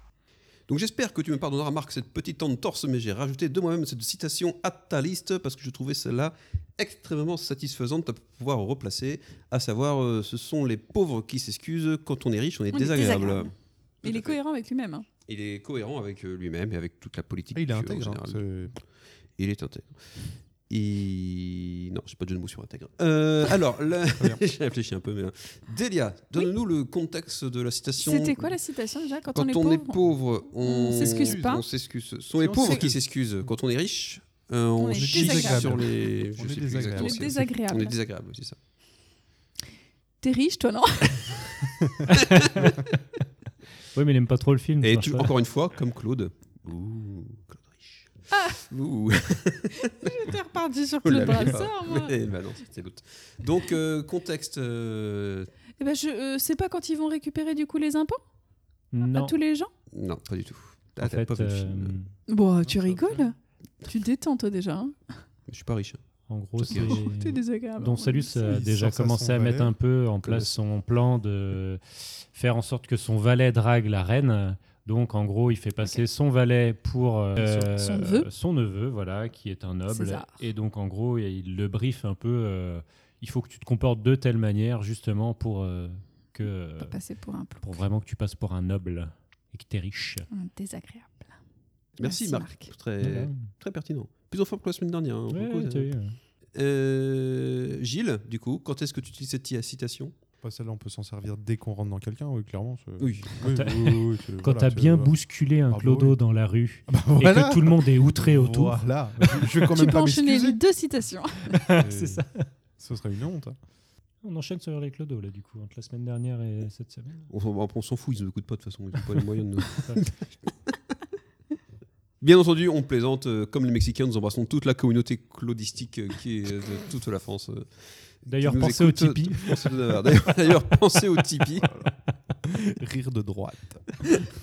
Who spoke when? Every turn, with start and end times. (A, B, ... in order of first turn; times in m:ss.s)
0:00.7-0:14.4 A
0:12.7-0:13.5 B
0:14.0-0:15.1 B
0:15.2-0:18.4 A
0:17.5-0:18.8 C
0:19.4-0:28.5 A
0:28.0-0:30.0 B
0:29.3-0:38.6 A
0:30.6-0:31.6 B
0:30.9-0:31.6 C
0:32.4-0:33.0 C
0:32.6-0:32.9 B
0:34.8-0:35.8 B
0:35.0-0:37.5 C
0:37.0-0:38.0 B
0:40.2-0:41.4 B
0:42.1-0:42.8 D
0:42.1-0:42.7 A
0:43.9-0:45.3 D
0:44.8-0:48.1 A
0:48.3-0:48.6 B
0:48.6-0:50.3 A
0:49.8-0:52.2 B
0:51.0-0:55.5 A
0:55.8-0:58.2 B
0:58.9-0:59.3 D
0:59.0-0:59.7 B
0:59.9-1:02.0 A
1:01.0-1:02.1 D
1:02.3-1:05.1 B
1:02.7-1:03.3 C
1:05.5-1:06.0 A
1:06.3-1:27.0 D
1:06.6-1:07.0 A
1:06.7-1:08.5 B
1:08.5-1:09.8 C
1:10.2-1:10.5 A
1:17.4-1:18.3 B
1:19.9-1:20.3 B
1:26.8-1:27.8 B
1:27.6-1:30.3 D
1:30.3-1:31.4 B
1:32.0-1:35.9 A
1:32.0-1:32.7 B
1:33.0-1:33.4 D
1:35.3-1:36.2 D
1:36.5-1:40.1 A
1:40.4-1:46.2 C
1:43.0-1:43.3 A
1:43.4-1:49.4 D
1:46.9-1:50.6 C
1:49.7-1:51.6 B
1:51.7-1:52.5 D
1:51.8-1:53.6 C
1:54.2-1:57.3 D
1:57.3-2:00.7 A
2:02.2-2:11.7 A
2:08.2-2:09.8 D
2:11.6-2:11.9 C
2:12.4-2:14.2 C